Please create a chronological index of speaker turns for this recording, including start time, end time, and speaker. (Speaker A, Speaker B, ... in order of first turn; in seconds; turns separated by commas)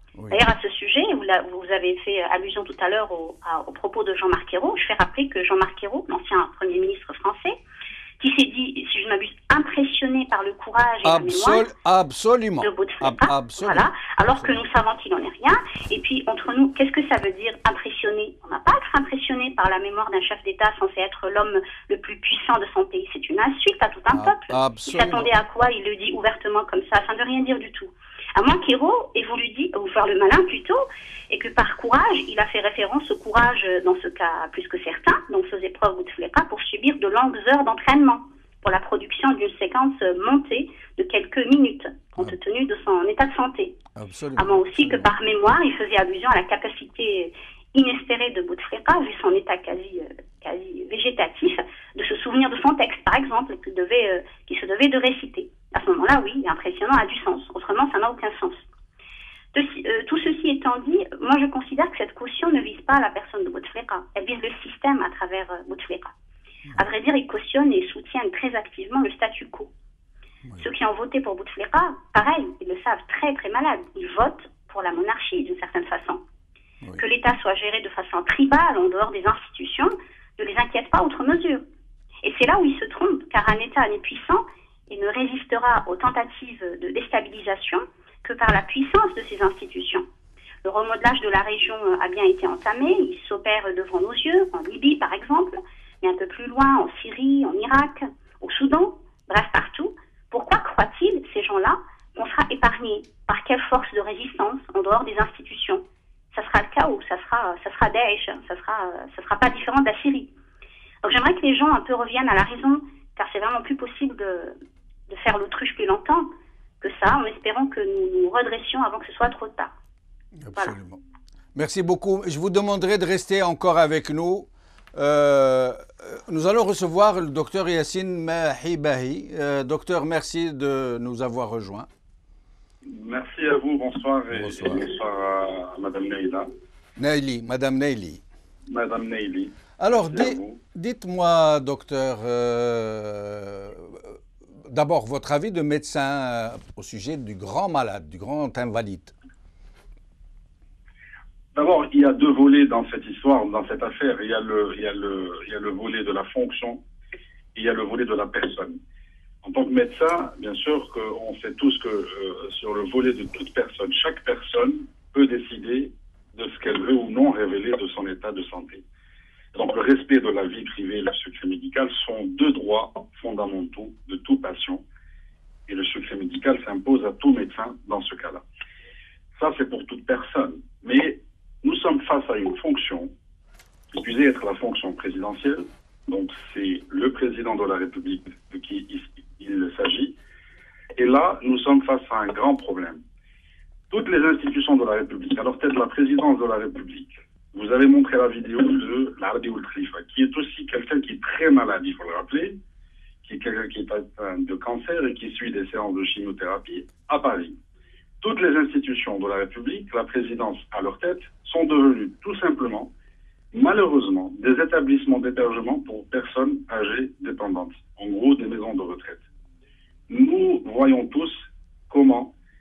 Speaker A: 0.2-0.5, Speaker B: 0.3-7.6, Speaker B: 8.2-11.7, Speaker A: 11.0-14.6, Speaker B: 12.6-43.8, Speaker A: 24.1-25.3, Speaker A: 43.9-45.1, Speaker B: 44.4-58.6, Speaker B: 59.5-66.1, Speaker B: 66.8-69.7, Speaker B: 70.6-76.2, Speaker B: 77.0-81.6, Speaker B: 82.2-90.0, Speaker B: 90.6-110.3, Speaker B: 111.0-114.5, Speaker B: 115.1-116.3, Speaker B: 116.8-119.7, Speaker A: 120.4-121.0, Speaker A: 121.5-131.9, Speaker C: 132.9-136.5, Speaker A: 134.3-134.9, Speaker A: 137.0-138.2, Speaker C: 138.7-140.6, Speaker A: 139.8-149.1, Speaker C: 151.5-156.8, Speaker C: 157.5-158.8, Speaker C: 159.4-168.8, Speaker C: 169.5-174.8, Speaker C: 175.7-178.4, Speaker C: 179.4-183.1, Speaker C: 183.9-190.2, Speaker C: 191.0-193.0, Speaker C: 193.9-202.6, Speaker C: 203.2-207.6, Speaker C: 208.2-212.9, Speaker C: 213.5-219.2, Speaker C: 220.1-222.3